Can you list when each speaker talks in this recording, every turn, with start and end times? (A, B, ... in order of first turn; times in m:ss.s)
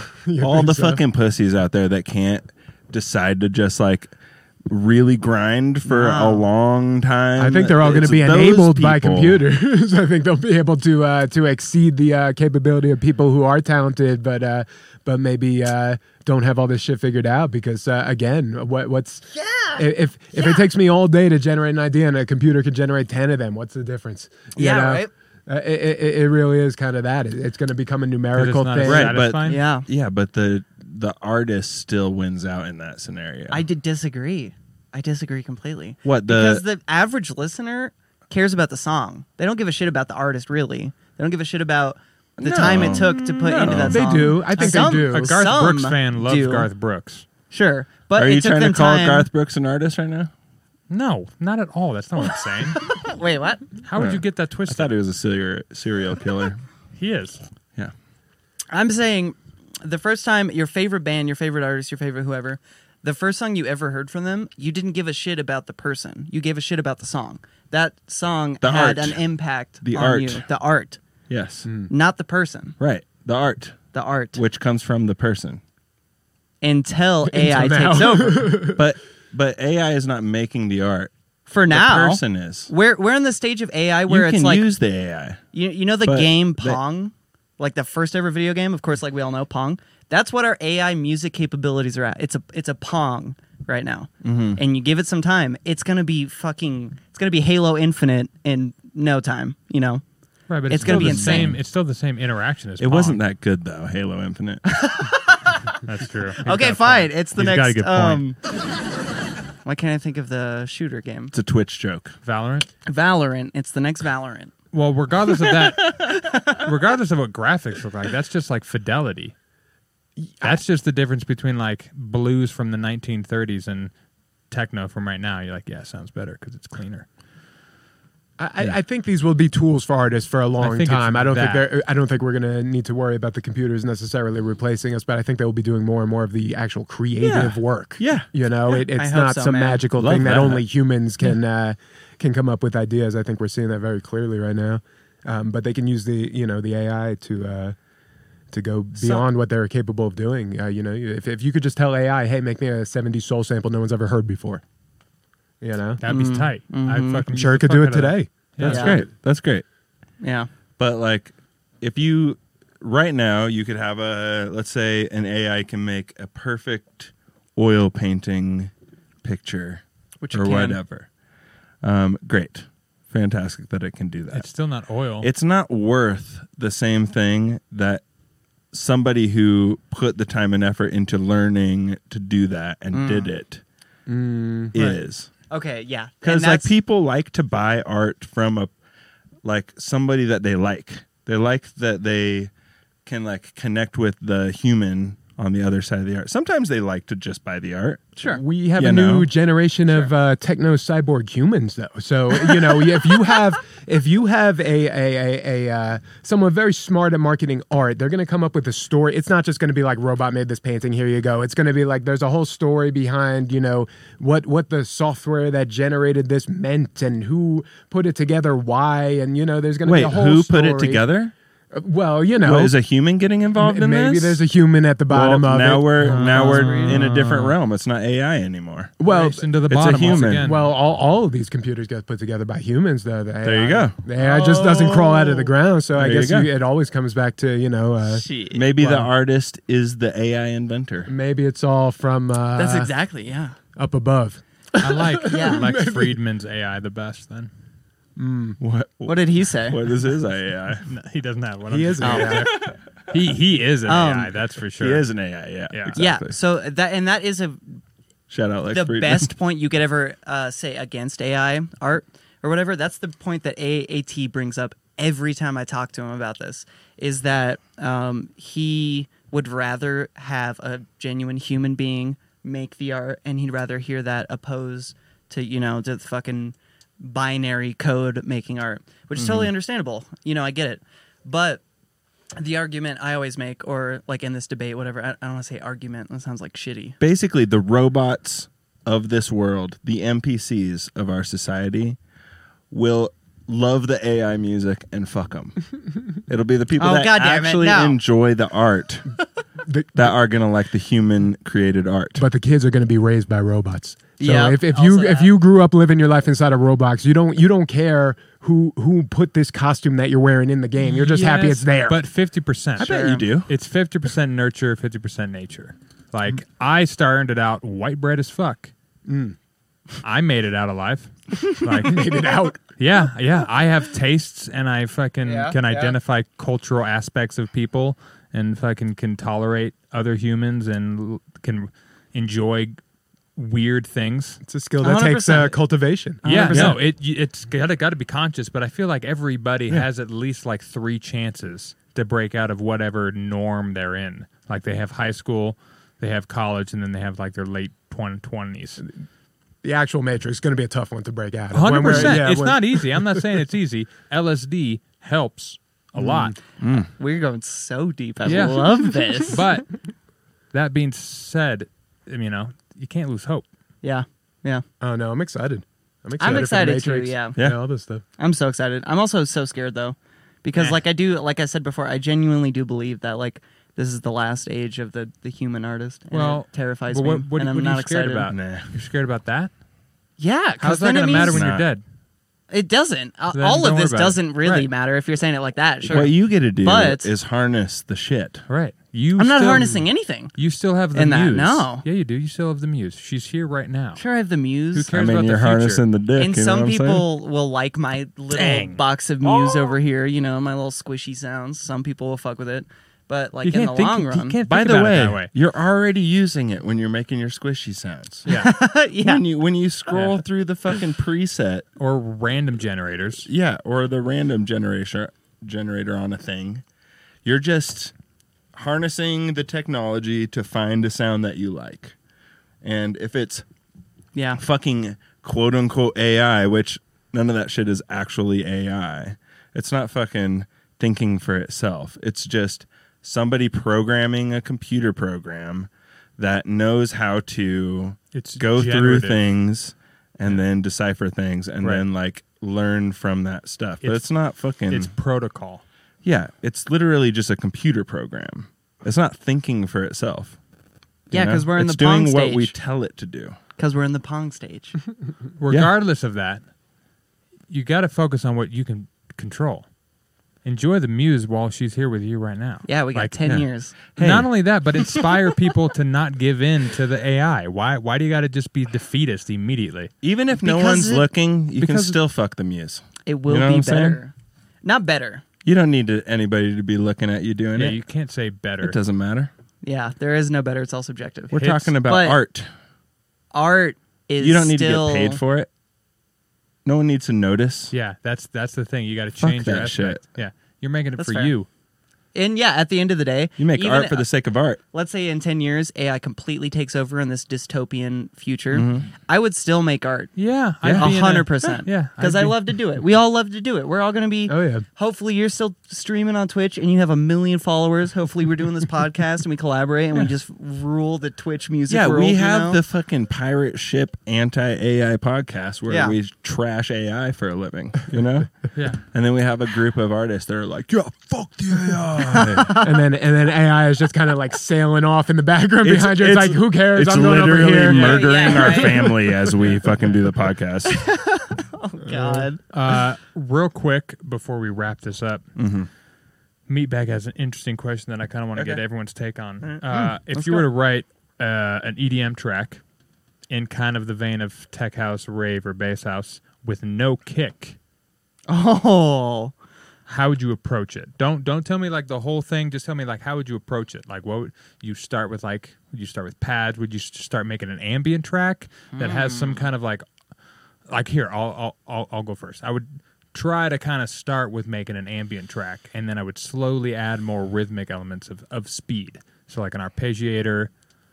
0:00.2-0:01.0 A
0:00.4-0:04.1 B
0:04.7-0:09.4 B
0:05.8-0:06.5 C
0:07.4-0:29.2 A
0:19.4-0:19.8 C
0:20.4-0:20.6 C
0:24.6-0:25.1 C
0:28.3-0:29.7 D
0:28.8-0:33.6 B
0:29.5-0:29.9 C
0:33.5-0:46.7 C
0:36.0-0:36.6 B
0:42.4-0:44.3 B
0:43.8-0:45.4 A
0:44.6-0:47.3 D
0:47.5-0:49.3 C
0:48.2-0:50.3 B
0:50.9-0:52.8 D
0:52.8-0:53.7 C
0:53.8-0:55.0 D
0:54.0-0:56.6 B
0:56.9-0:57.4 D
0:58.7-1:11.0 C
1:08.6-1:09.2 B
1:09.8-1:10.4 B
1:11.3-1:11.7 B
1:11.6-1:11.9 A
1:11.9-1:12.8 C
1:12.8-1:15.6 B
1:13.9-1:14.4 C
1:16.6-1:18.5 C
1:17.3-1:18.9 A
1:18.8-1:21.1 B
1:21.5-1:24.7 C
1:21.7-1:22.7 B
1:24.1-1:25.4 B
1:25.5-1:40.0 C
1:26.0-1:26.8 B
1:34.2-1:34.6 B
1:40.5-1:43.2 D
1:40.7-1:41.6 C
1:40.8-1:41.6 B
1:42.8-1:44.6 B
1:44.7-1:45.7 C
1:45.8-1:48.2 D
1:46.4-1:48.4 C
1:49.6-1:51.3 C
1:51.3-1:52.2 B
1:52.2-1:52.7 D
1:52.9-1:54.6 C
1:54.7-1:59.4 D
1:56.1-1:56.6 C
2:00.2-2:00.6 A
2:00.4-2:03.9 D
2:04.5-2:07.1 D
2:08.4-2:27.8 A
2:10.6-2:11.7 D
2:17.2-2:18.3 B
2:18.7-2:19.8 C
2:20.0-2:20.6 B
2:28.5-2:34.6 A
2:29.0-2:29.2 B
2:35.6-2:36.0 A
2:36.0-2:39.0 D
2:36.1-2:37.2 C
2:37.3-2:38.7 A
2:38.6-2:39.6 B
2:38.7-2:39.0 C
2:40.2-2:40.5 C
2:40.8-2:48.7 B
2:49.2-2:51.1 B
2:50.2-2:50.8 C
2:51.8-2:54.5 B
2:54.3-2:55.3 D
2:55.2-2:58.0 B
2:58.7-3:03.6 B
3:02.9-3:03.3 C
3:04.1-3:04.8 A
3:04.7-3:05.3 B
3:04.8-3:05.0 D
3:05.5-3:06.7 C
3:06.2-3:08.7 B
3:09.4-3:12.5 B
3:13.1-3:18.1 B
3:18.2-3:18.4 C
3:18.3-3:41.0 A
3:18.8-3:19.3 B
3:22.6-3:23.4 C
3:39.8-3:41.3 B
3:41.7-3:42.8 A
3:42.4-3:44.4 B
3:43.6-3:46.2 A
3:45.1-3:48.9 B
3:46.0-3:47.0 C
3:46.0-3:47.6 D
3:49.0-3:49.5 A
3:49.0-3:50.8 D
3:49.7-3:50.5 B
3:50.1-3:58.2 A
3:53.4-3:54.0 B
3:54.2-3:55.5 C
3:56.0-3:56.5 B
3:58.0-3:58.7 C
3:58.5-4:01.1 B
3:58.8-3:59.1 A
4:01.1-4:02.9 A
4:02.6-4:03.6 C
4:03.8-4:06.2 A
4:04.8-4:07.5 D
4:05.3-4:05.7 C
4:08.2-4:08.6 A
4:08.6-4:10.9 B
4:09.1-4:09.8 C
4:10.9-4:15.1 D
4:11.7-4:12.5 A
4:12.0-4:12.5 C
4:13.9-4:14.3 C
4:14.8-4:16.4 B
4:15.7-4:16.0 D
4:16.0-4:17.8 C
4:18.3-4:19.3 B
4:18.7-4:41.6 C
4:39.2-4:39.5 B
4:42.4-4:47.0 C
4:47.0-4:52.0 B
4:52.7-4:55.7 B
4:56.3-4:59.2 B
4:56.8-4:58.0 C
4:59.7-5:00.1 A
5:00.0-5:02.2 B
5:02.2-5:12.0 A
5:04.2-5:05.4 C
5:10.8-5:18.7 D
5:12.8-5:13.3 C
5:12.8-5:13.5 B
5:19.1-5:19.4 A
5:20.0-5:32.8 D
5:21.8-5:22.6 A
5:25.2-5:26.0 C
5:33.4-5:34.4 D
5:34.4-5:36.2 A
5:34.8-5:35.6 C
5:36.2-5:36.8 C
5:36.2-5:48.8 D
5:36.5-5:36.8 B
5:49.6-5:53.2 A
5:51.5-5:56.4 D
5:56.0-5:56.3 A
5:56.6-5:56.9 B
5:57.0-5:59.4 C
5:58.3-5:59.8 D
6:00.5-6:03.5 D
6:03.8-6:04.6 C
6:04.8-6:08.0 A
6:06.2-6:07.4 C
6:08.2-6:18.3 C
6:16.1-6:19.5 D
6:18.3-6:18.7 B
6:20.2-6:21.5 C
6:20.6-6:21.8 D
6:21.2-6:21.7 B
6:22.5-6:27.1 C
6:23.3-6:24.7 D
6:25.8-6:28.5 B
6:28.5-6:34.0 D
6:29.2-6:30.4 C
6:30.9-6:31.8 C
6:34.0-6:34.9 C
6:34.7-6:35.8 D
6:34.9-6:37.0 B
6:36.1-6:44.4 C
6:38.3-6:38.8 D
6:39.2-6:39.8 B
6:43.4-6:45.3 D
6:44.5-6:48.3 B
6:48.3-6:48.6 D
6:48.3-6:49.2 C
6:49.0-6:51.7 B
6:49.9-6:50.2 D
6:51.8-6:53.3 D
6:53.3-6:56.6 B
6:57.2-6:57.9 B
6:58.5-7:02.0 B
7:02.6-7:03.4 B
7:04.2-7:04.4 C
7:04.4-7:24.9 B
7:18.1-7:19.2 D
7:23.8-7:24.1 D
7:24.7-7:25.6 D
7:26.0-7:30.4 B
7:31.1-7:32.6 C
7:31.1-7:33.4 B
7:33.6-7:34.8 C
7:35.4-7:36.4 D
7:37.5-7:39.7 D
7:40.4-7:43.2 D
7:42.7-7:43.8 C
7:43.2-7:44.3 B
7:43.8-7:49.9 D
7:50.0-7:54.0 B
7:50.4-7:51.1 C
7:51.6-7:52.0 D
7:53.0-7:55.2 C
7:55.4-7:57.8 B
7:57.6-7:58.8 D
7:58.6-7:59.3 B
7:59.6-8:02.2 C
8:01.3-8:02.5 B
8:01.3-8:01.8 D
8:03.3-8:05.2 C
8:04.2-8:05.5 B
8:06.6-8:07.7 B
8:07.7-8:11.5 D
8:09.2-8:10.0 B
8:11.0-8:11.3 C
8:12.1-8:14.1 C
8:13.4-8:14.6 B
8:14.7-8:20.2 C
8:18.5-8:18.9 B
8:20.2-8:22.4 D
8:20.6-8:20.9 B
8:20.7-8:32.6 C
8:24.3-8:24.7 A
8:31.7-8:42.6 B
8:35.7-8:36.0 C
8:38.5-8:38.8 D
8:42.1-8:42.8 C
8:42.2-8:49.3 A
8:45.6-8:50.9 B
8:47.6-8:49.0 C
8:50.7-8:52.4 C
8:51.8-8:52.3 A
8:52.5-8:55.2 D
8:55.4-8:55.7 B
8:56.5-9:02.6 D
8:59.4-8:59.9 B
9:00.1-9:00.4 C
9:03.3-9:07.6 D
9:08.3-9:09.3 C
9:09.9-9:19.8 D
9:18.7-9:19.5 C
9:20.7-9:30.5 D